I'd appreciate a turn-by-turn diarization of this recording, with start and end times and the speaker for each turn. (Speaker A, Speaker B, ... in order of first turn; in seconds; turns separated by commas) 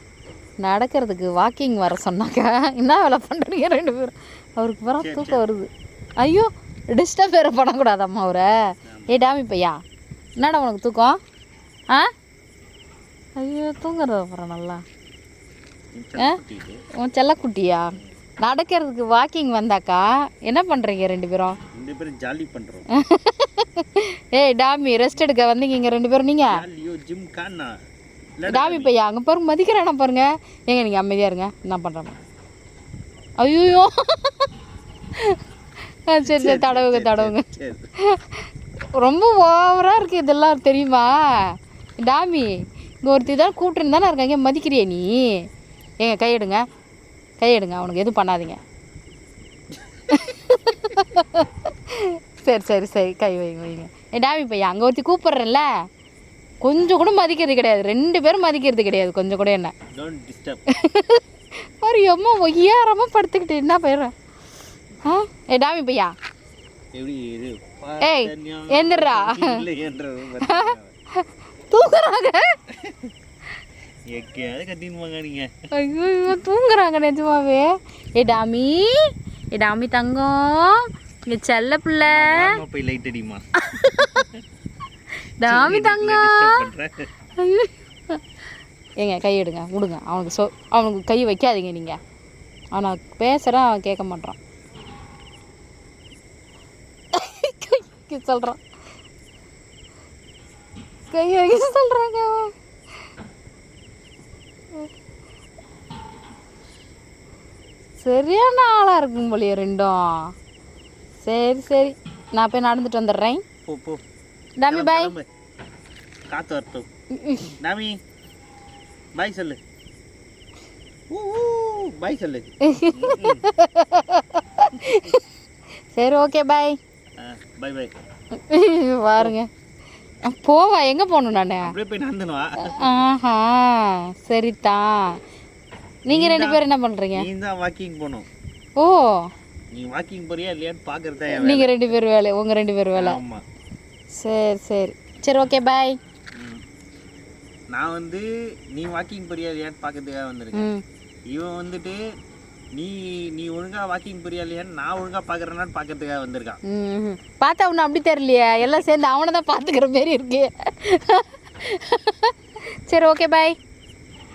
Speaker A: 0.6-9.8, Speaker B: 5.0-5.4, Speaker B: 8.9-9.2, Speaker A: 10.4-11.2, Speaker A: 13.3-14.8, Speaker B: 15.9-16.8, Speaker A: 17.0-21.6, Speaker B: 21.7-22.9, Speaker A: 22.9-26.6, Speaker B: 26.5-27.8, Speaker B: 28.4-28.9, Speaker A: 28.5-32.2, Speaker A: 33.4-34.5, Speaker A: 36.1-45.5, Speaker B: 36.2-37.9, Speaker A: 46.0-46.6, Speaker A: 47.4-48.6, Speaker A: 50.1-55.7, Speaker A: 56.6-59.7, Speaker B: 59.9-60.6, Speaker A: 60.7-61.2, Speaker A: 61.8-64.1, Speaker A: 65.0-66.1, Speaker B: 66.9-70.9, Speaker A: 68.0-69.6, Speaker A: 70.4-72.6, Speaker B: 72.7-73.1, Speaker B: 74.1-75.5, Speaker A: 75.7-82.6, Speaker B: 82.1-84.4, Speaker A: 83.6-84.3, Speaker A: 85.4-86.7, Speaker B: 85.4-87.1, Speaker A: 87.4-88.2, Speaker A: 89.0-92.0, Speaker A: 92.7-94.4, Speaker A: 97.1-98.6, Speaker A: 101.1-102.5, Speaker A: 108.0-110.3, Speaker A: 111.2-113.4, Speaker B: 113.6-114.0, Speaker A: 114.6-115.1, Speaker B: 114.7-115.2, Speaker B: 116.3-116.9, Speaker A: 117.1-117.5, Speaker B: 117.5-118.0, Speaker B: 119.1-119.6, Speaker B: 121.1-123.5, Speaker A: 122.6-125.2, Speaker A: 125.9-126.8, Speaker B: 127.2-127.9, Speaker A: 128.3-129.5, Speaker A: 130.2-131.7, Speaker B: 131.6-132.9, Speaker A: 132.7-135.2, Speaker A: 136.1-137.2, Speaker B: 136.1-138.3, Speaker A: 138.8-139.3, Speaker B: 139.7-141.9, Speaker A: 141.3-143.2, Speaker B: 142.9-143.4, Speaker A: 144.1-146.0, Speaker B: 146.3-146.6, Speaker B: 147.7-150.7, Speaker A: 150.5-150.8, Speaker B: 151.3-152.0, Speaker B: 152.7-156.6, Speaker A: 156.7-162.3, Speaker A: 162.9-163.5